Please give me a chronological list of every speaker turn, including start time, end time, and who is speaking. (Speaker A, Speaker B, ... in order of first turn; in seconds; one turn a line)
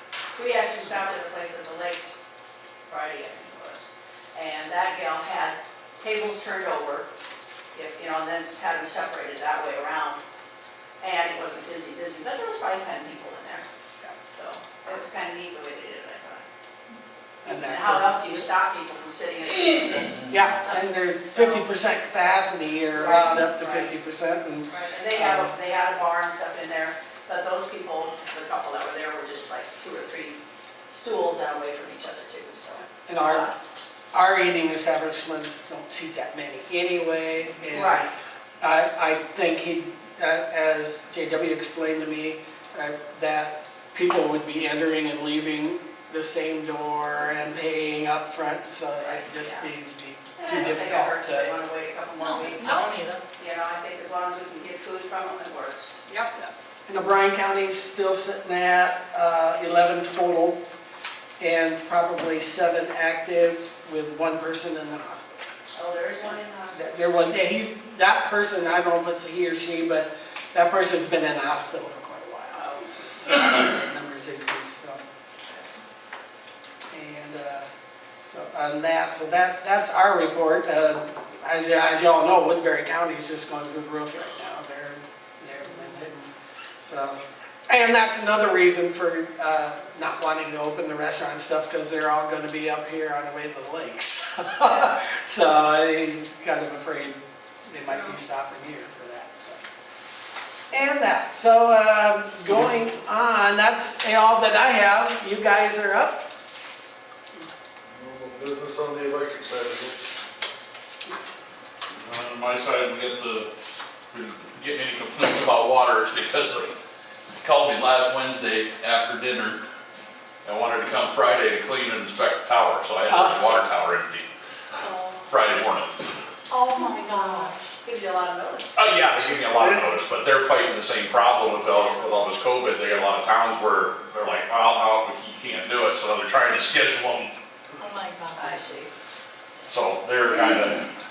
Speaker A: 0.3-2.2
Speaker A: 2.9-7.1
Speaker A: 7.7-10.2
Speaker A: 11.0-13.7
Speaker A: 14.2-16.4
Speaker B: 17.4-18.5
Speaker A: 17.4-20.2
Speaker B: 20.3-25.5
Speaker A: 21.3-21.7
Speaker A: 22.9-23.9
Speaker A: 24.7-30.4
Speaker A: 30.9-33.5
Speaker B: 33.0-33.5
Speaker B: 34.1-38.1
Speaker A: 37.7-38.1
Speaker B: 38.6-51.5
Speaker A: 49.0-49.6
Speaker A: 50.4-56.0
Speaker C: 52.2-53.2
Speaker B: 56.1-60.6
Speaker B: 61.4-65.5
Speaker A: 65.7-66.8
Speaker B: 66.7-75.0
Speaker B: 76.9-77.7
Speaker B: 78.2-86.3
Speaker B: 86.8-99.6
Speaker B: 100.7-106.2
Speaker D: 107.9-110.0
Speaker E: 112.0-113.5
Speaker E: 114.1-116.7
Speaker E: 117.4-119.6
Speaker E: 120.4-124.3
Speaker B: 123.1-123.4
Speaker C: 124.8-125.2
Speaker E: 125.3-125.9
Speaker C: 126.5-127.6
Speaker A: 127.8-128.8
Speaker E: 128.7-137.3
Speaker B: 129.6-129.8
Speaker C: 137.8-138.7
Speaker A: 138.3-138.9
Speaker E: 139.7-140.9